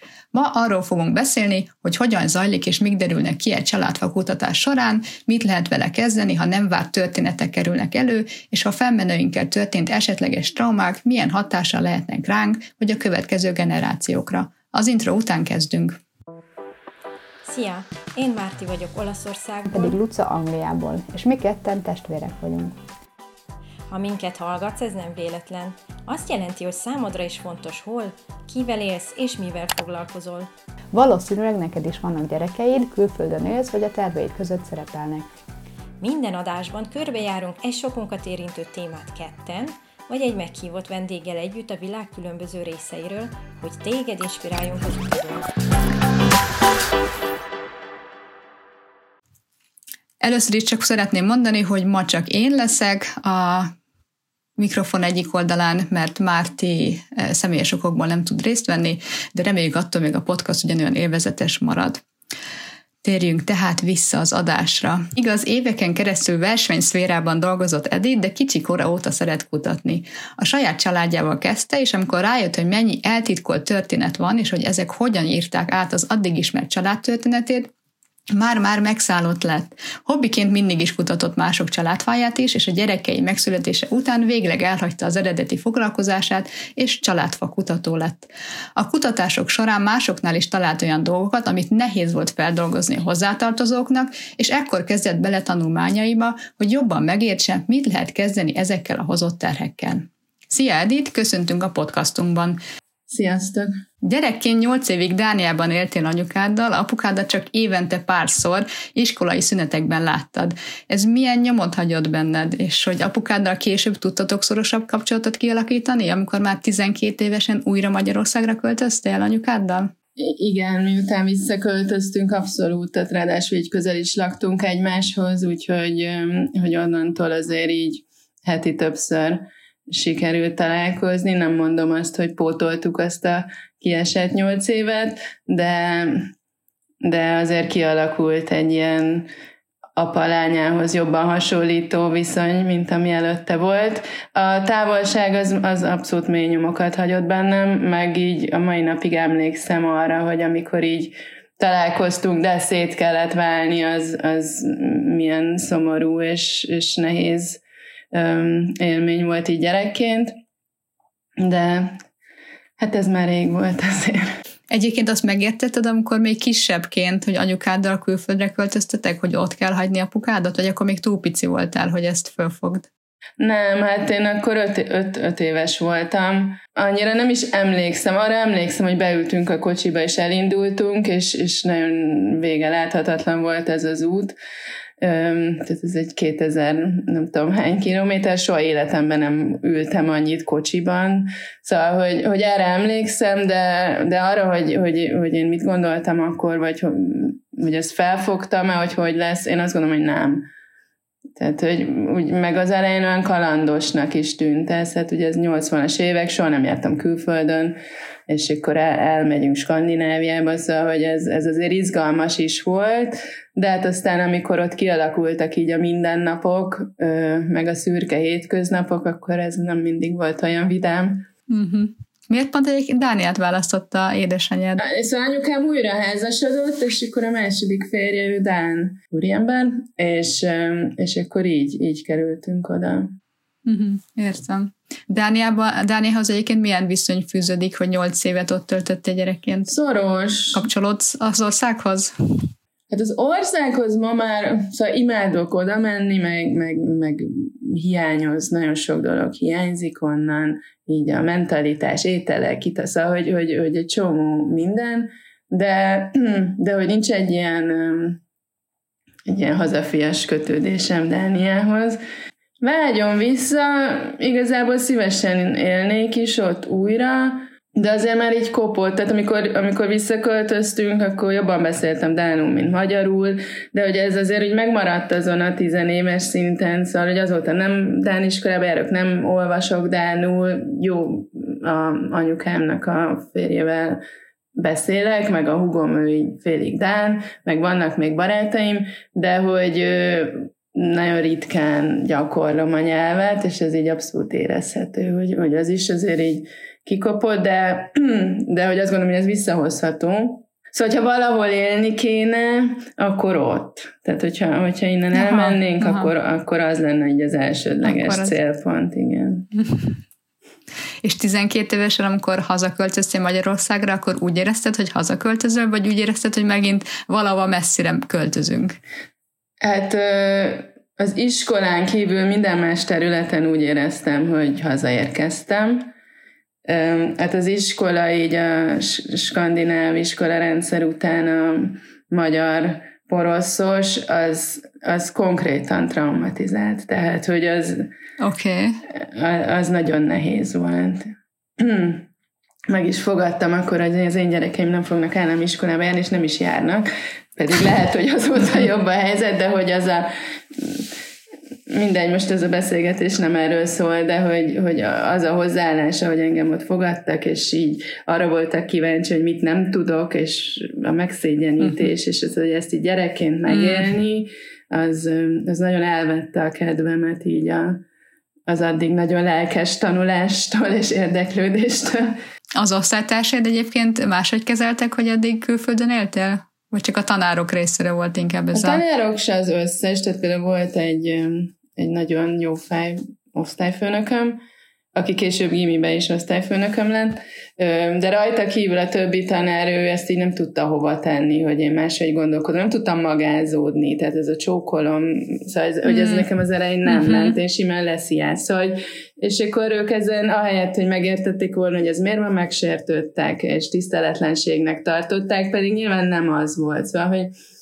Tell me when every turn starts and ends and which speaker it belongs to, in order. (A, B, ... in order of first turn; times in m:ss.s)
0:00.3-0:16.0 A
0:17.4-0:20.0 B
0:19.7-0:22.8 C
0:23.9-0:30.5 B
0:30.9-0:35.3 C
0:36.0-0:45.5 B
0:50.2-0:53.7 A
0:54.6-1:02.0 A
1:03.0-1:17.7 A
1:18.3-1:42.6 A
1:43.1-1:43.7 D
1:44.0-1:59.9 A
2:00.2-2:16.3 D
2:17.0-2:19.3 D
2:20.0-2:37.6 D
2:38.1-2:40.4 D
2:41.4-2:42.0 D
2:42.8-2:44.3 D
2:44.7-2:52.9 A
2:53.4-3:04.4 D
3:05.0-3:20.5 D
3:21.4-3:27.8 D
3:28.3-3:41.3 D
3:41.5-3:44.8 A
3:44.8-3:53.1 D
3:53.7-3:59.7 A
3:59.7-4:00.6 D
4:00.5-4:02.5 A
4:02.9-4:18.2 D
4:19.3-4:22.0 D
4:22.6-4:44.0 D
4:44.6-5:09.5 D
5:05.1-5:06.1 A
5:07.8-5:08.4 A
5:09.6-5:10.0 A
5:11.0-5:18.8 A
5:19.6-5:25.9 D
5:26.7-5:37.9 D
5:38.2-5:38.8 A
5:38.9-5:42.1 D
5:42.7-5:50.9 D
5:51.7-6:07.8 D
6:03.5-6:03.9 A
6:08.5-6:12.2 D
6:12.6-6:18.8 A
6:18.5-6:24.4 D
6:25.0-6:47.3 D
6:35.9-6:36.3 A
6:36.9-6:37.3 A